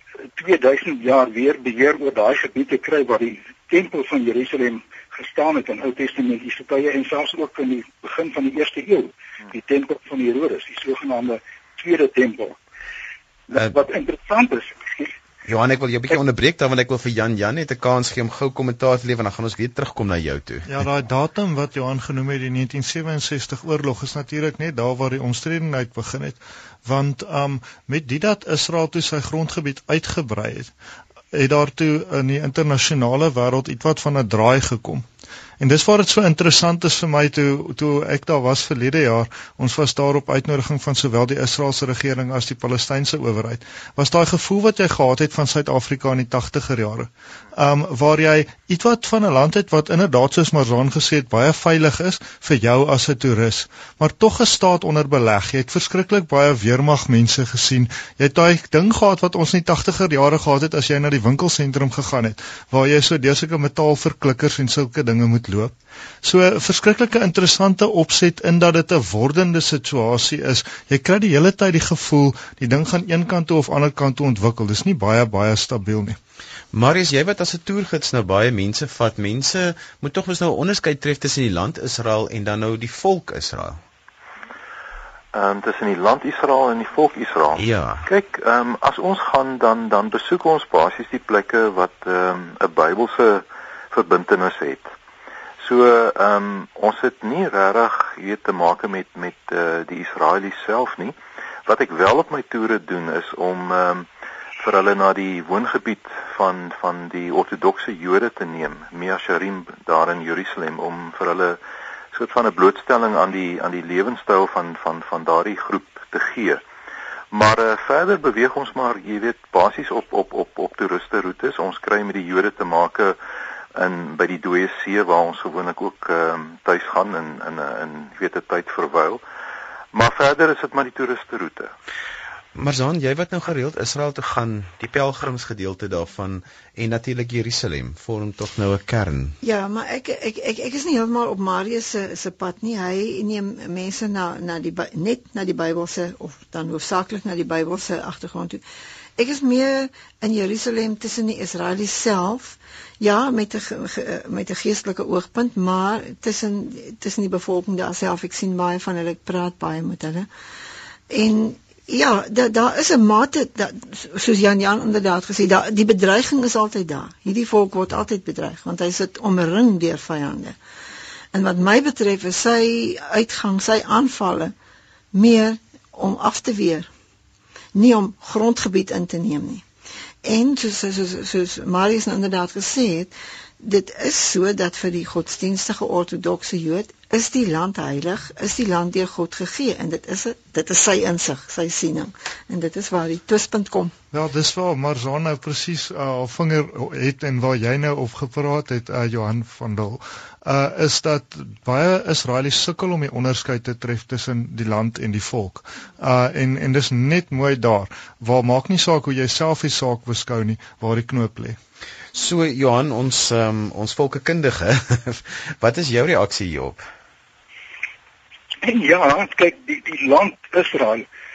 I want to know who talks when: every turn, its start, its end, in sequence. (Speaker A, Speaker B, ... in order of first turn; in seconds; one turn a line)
Speaker A: 0.3-12.6
Speaker A: 13.5-15.1
Speaker B: 15.4-20.7
Speaker C: 20.7-30.7
Speaker C: 31.3-35.0
Speaker C: 35.6-76.2
Speaker B: 76.7-83.8
Speaker D: 85.3-94.9
Speaker B: 87.5-88.1
Speaker D: 95.6-101.1
Speaker D: 101.7-104.1
Speaker D: 104.6-111.6
Speaker D: 112.1-116.6
Speaker D: 117.3-123.2
Speaker D: 123.7-129.2
Speaker D: 129.9-131.7
Speaker B: 132.5-139.3
Speaker E: 139.4-148.6
Speaker E: 149.2-160.3
Speaker E: 161.1-170.6
Speaker E: 171.3-174.5
Speaker E: 175.1-176.9
Speaker E: 177.7-179.6
Speaker E: 180.2-193.9
Speaker C: 194.1-211.6
Speaker B: 212.1-216.9
Speaker A: 218.6-221.0